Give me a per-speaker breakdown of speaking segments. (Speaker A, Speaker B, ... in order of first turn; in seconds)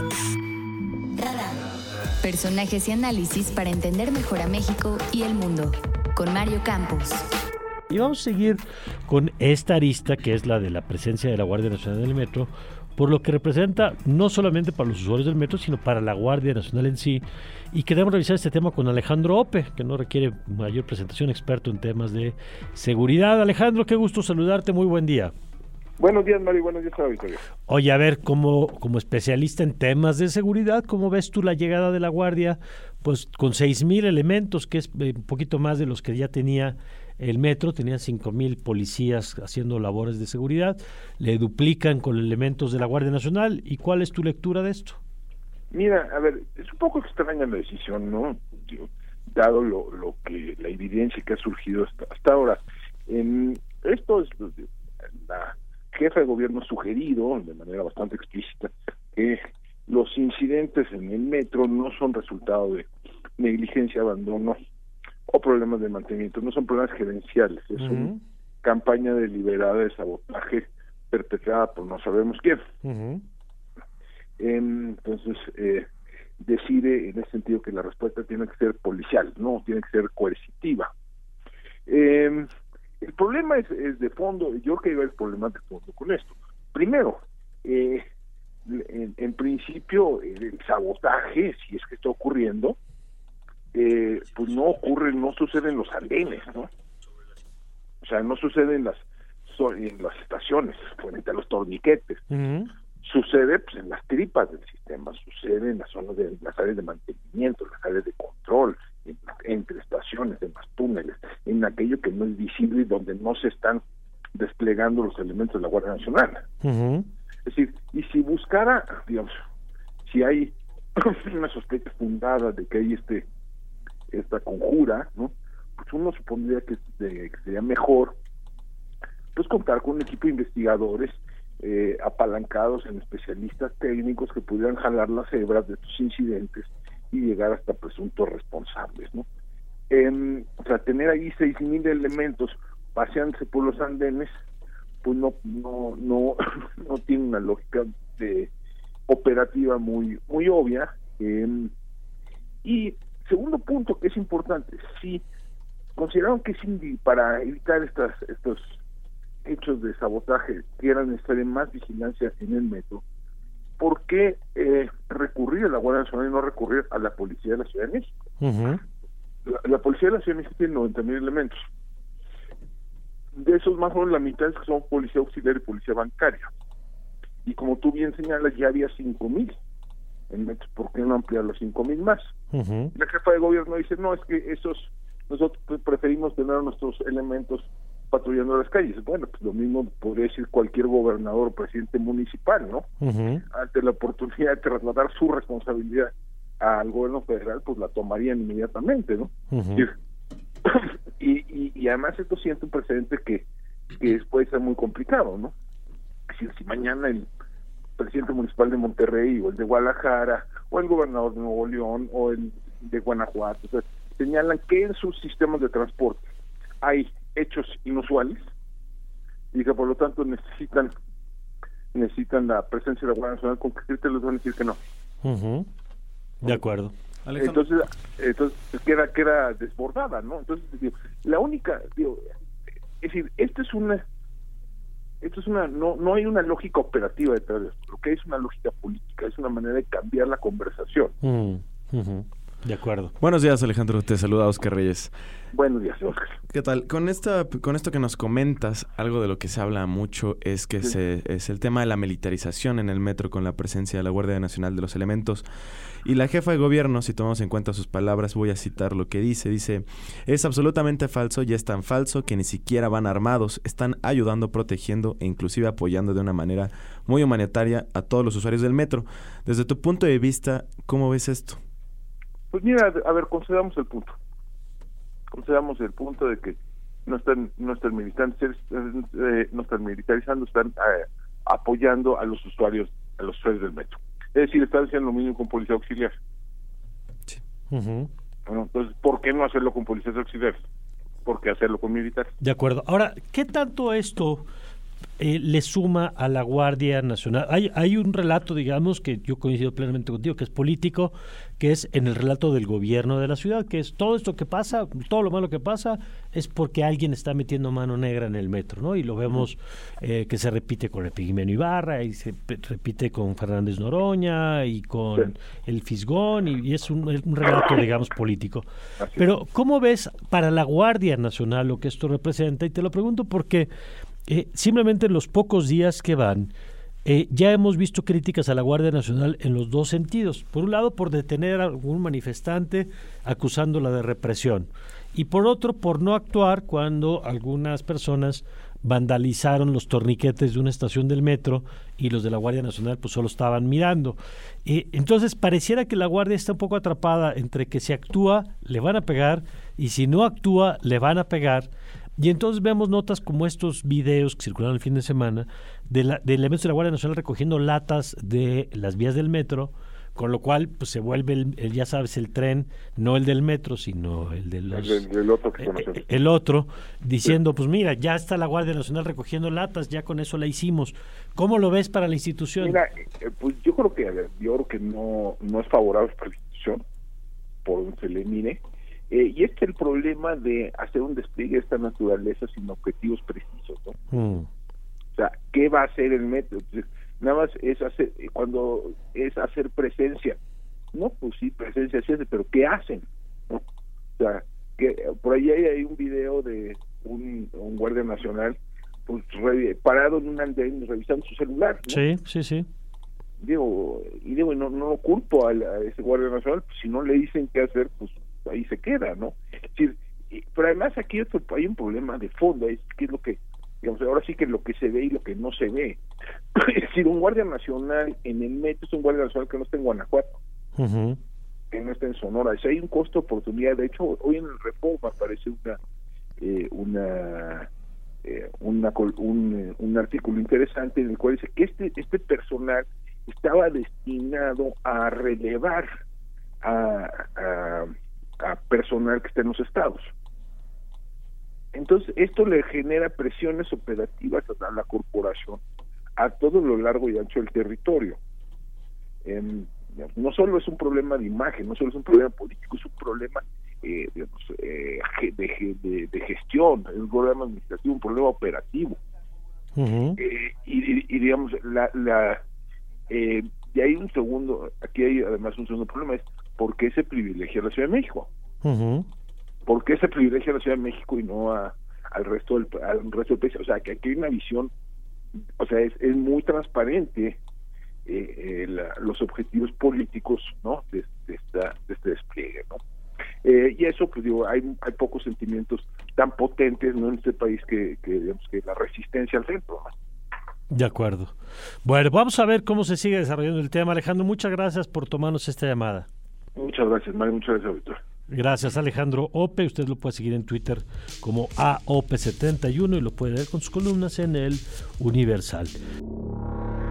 Speaker A: 1.1-1.6, 2.2-7.2
Speaker B: 7.9-25.3, 27.7-45.0, 67.8-68.2, 72.8-73.2, 102.3-102.7, 116.6-117.1, 168.4-168.8, 182.5-182.9, 193.0-193.4, 199.5-199.9, 225.2-225.7, 226.4-226.9, 241.2-243.1, 287.7-288.1, 292.4-294.4, 295.2-323.7, 324.3-326.5, 327.0-365.0, 365.6-372.8, 384.1-384.5, 401.9-402.7, 420.8-421.2, 459.7-460.2, 468.6-469.1, 490.7-496.1, 498.3-505.7
Speaker C: 26.0-27.4, 45.7-54.7, 55.2-62.9, 63.4-64.6, 65.3-68.1, 68.6-72.6, 74.4-75.9, 76.4-80.9, 81.8-82.5, 83.0-88.0, 88.7-92.8, 93.7-96.7, 98.0-102.2, 103.0-113.8, 114.3-116.5, 117.5-119.4, 120.0-123.2, 124.1-128.2, 129.3-139.2, 139.9-144.3, 145.0-148.5, 149.1-151.7, 152.6-155.2, 155.9-158.8, 159.4-163.0, 163.8-168.1, 169.4-171.6, 173.3-176.5, 177.4-179.5, 180.3-182.3, 182.9-192.8, 193.5-199.9, 200.6-203.4, 204.0-205.5, 206.3-207.3, 208.0-216.3, 216.8-218.4, 219.5-220.9, 221.9-224.8, 227.3-232.3, 233.0-234.0, 235.2-241.1, 245.5-246.3, 272.5-274.2, 275.3-286.1, 288.5-290.6, 291.2-292.3, 319.0-319.3, 364.7-366.0, 372.6-376.8, 377.6-383.9, 385.1-390.4, 390.9-393.6, 394.2-402.0, 403.4-416.0, 416.5-420.4, 421.7-425.8, 426.4-427.7, 428.2-435.9, 436.6-440.1, 441.7-445.6, 446.2-448.2, 449.2-459.0, 460.2-462.4, 463.1-468.3, 469.6-474.7, 475.6-477.4, 478.1-482.8, 483.4-489.9, 496.6-498.0
Speaker D: 243.2-245.1, 246.5-255.4, 256.0-271.6